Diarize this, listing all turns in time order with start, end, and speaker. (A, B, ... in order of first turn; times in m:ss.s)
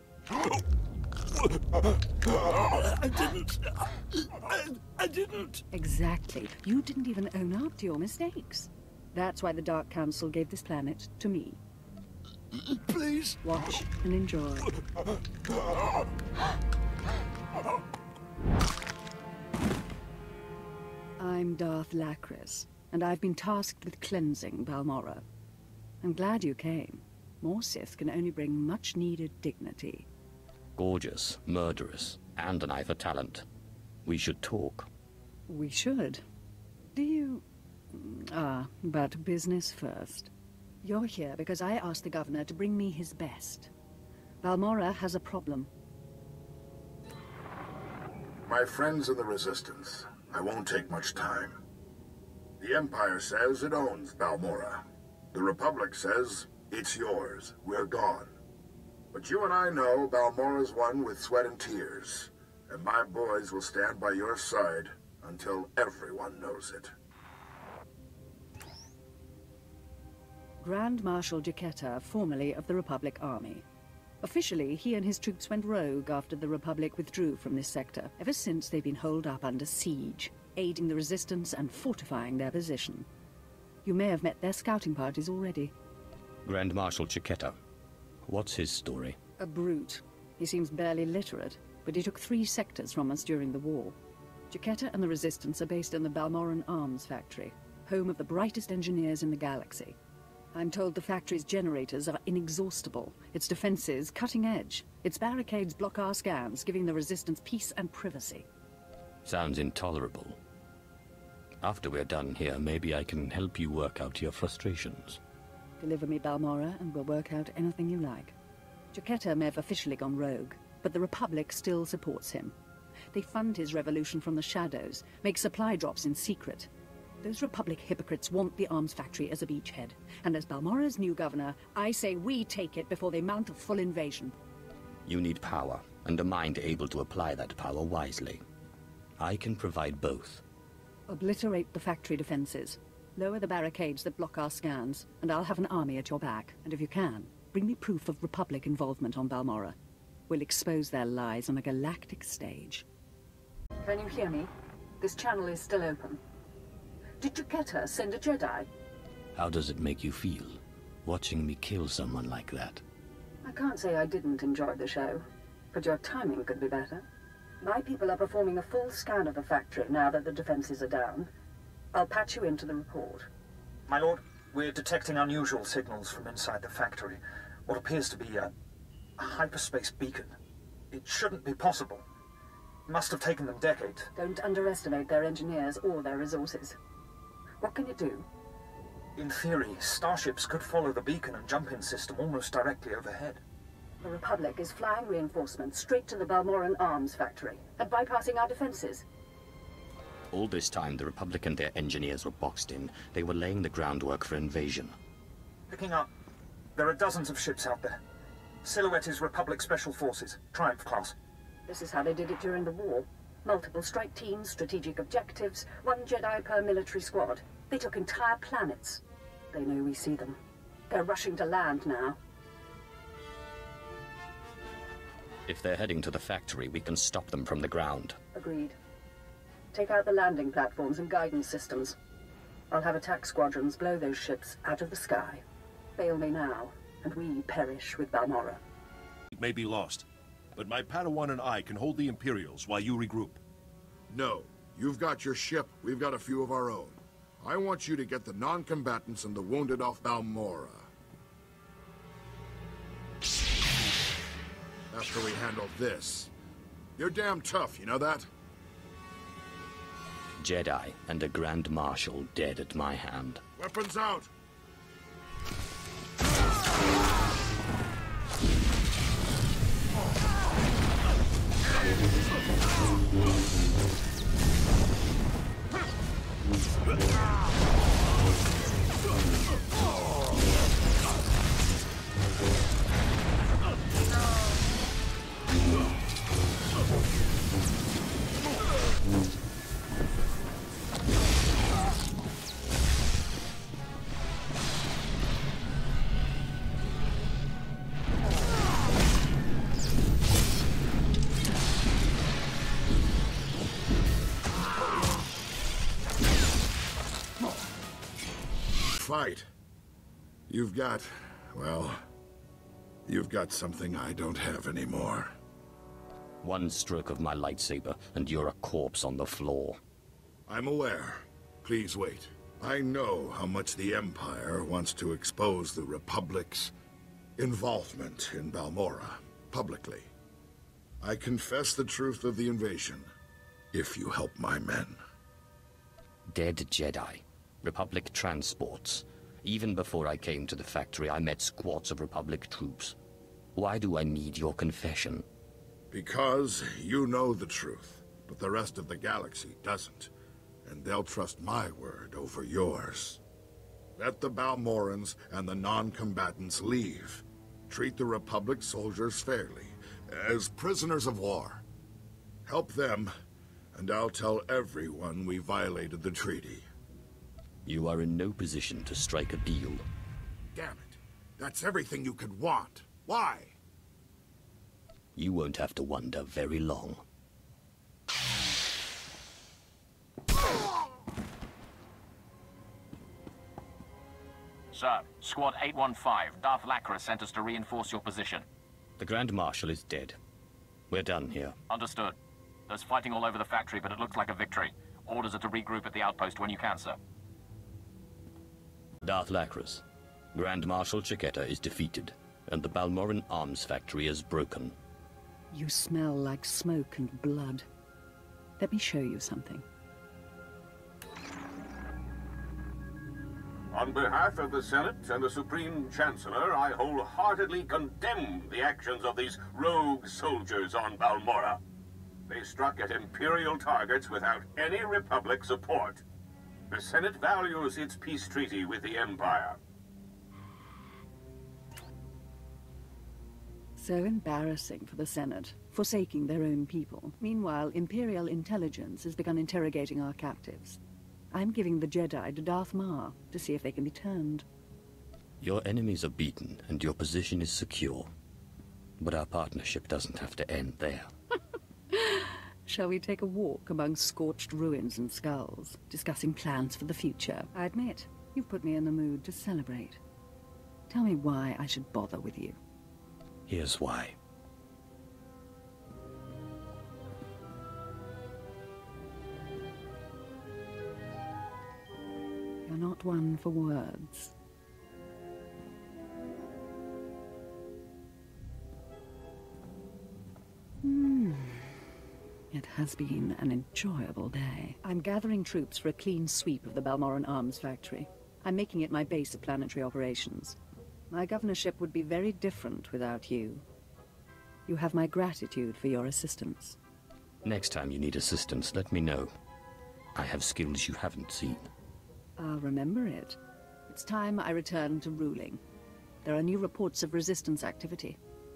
0:02.6-0:03.6 A
0:04.5-0:05.5 A
0:05.7-0:11.6 B
0:13.4-0:14.7 B
0:21.2-0:25.2 B
0:26.0-0:30.1 B
0:30.8-0:33.4 A
0:34.0-0:34.9 A
0:35.5-0:36.2 B
0:36.9-0:40.3 B
0:40.8-0:43.7 B
0:44.4-0:45.7 B
0:48.5-0:51.6 C
0:52.6-0:58.3 C
0:59.1-1:06.9 C
1:10.6-1:13.6 B
1:14.2-1:23.1 B
1:23.8-1:25.7 B
1:26.4-1:27.5 A
1:28.2-1:29.2 A
1:29.4-1:34.0 B
1:34.5-1:40.0 B
1:40.5-1:48.5 B
1:49.2-1:50.4 A
1:51.6-1:55.2 A
1:55.8-1:58.3 B
1:58.9-2:02.5 B
2:03.1-2:06.7 B
2:07.2-2:14.3 B
2:15.0-2:18.4 A
2:19.2-2:20.4 A
2:21.1-2:29.8 B
2:30.3-2:32.8 B
2:33.8-2:36.2 B
2:37.2-2:38.7 B
2:39.3-2:42.8 A
2:43.4-2:47.0 B
2:47.6-2:51.3 B
2:51.9-2:53.3 B
2:53.9-2:58.5 D
2:59.2-3:00.3 D
3:00.9-3:02.0 D
3:02.9-3:04.1 D
3:04.1-3:06.8 B
3:07.6-3:08.3 B
3:09.2-3:13.4 D
3:14.0-3:19.0 B
3:20.3-3:24.9 A
3:25.7-3:26.1 D
3:26.8-3:28.0 D
3:28.6-3:31.1 D
3:31.7-3:40.4 B
3:40.9-3:42.2 B
3:45.5-3:48.2 A
3:48.3-3:48.8 B
3:49.7-3:52.0 B
3:52.7-3:55.4 B
3:56.0-3:58.6 B
3:59.3-4:00.0 E
4:00.6-4:03.4 E
4:04.1-4:10.9 C
4:14.9-4:16.3 C
4:17.0-4:18.3 C
4:20.4-4:23.4 A
4:23.6-4:24.3 C
5:09.0-5:09.4 C
5:10.5-5:12.0 C
5:13.0-5:15.3 C
5:16.4-5:19.8 A
5:20.5-5:26.7 C
5:27.4-5:30.1 C
5:31.0-5:33.1 C
5:33.7-5:35.0 C
5:36.3-5:43.0 A
5:43.5-5:45.2 A
5:45.9-5:50.1 C
5:50.6-5:53.2 C
5:54.0-6:01.6 C
6:02.4-6:03.1 C
6:03.7-6:06.6 C
6:07.6-6:09.9 A
6:10.5-6:13.6 C
6:15.2-6:17.0 A
6:24.7-6:28.4 F
6:29.0-6:30.2 A
6:30.9-6:31.6 A
6:31.7-6:32.1 F
6:32.7-6:37.0 F
6:39.0-6:39.8 A
6:40.3-6:44.7 A
6:45.5-6:47.6 B
6:48.6-6:49.6 B
6:53.7-7:01.6 G
7:02.3-7:06.0 G
7:06.7-7:09.6 G
7:13.8-7:20.8 B
7:21.3-7:24.4 B
7:25.4-7:28.1 A
7:29.0-7:31.1 A
7:31.9-7:40.0 B
7:40.9-7:42.6 B
7:43.5-7:44.2 A
7:52.6-7:54.3 B
8:00.8-8:01.8 B
8:02.5-8:10.6 B
8:11.1-8:13.6 B
8:14.6-8:16.8 B
8:17.4-8:19.3 A
8:20.1-8:21.7 A
8:22.4-8:25.6 B
8:26.2-8:28.2 B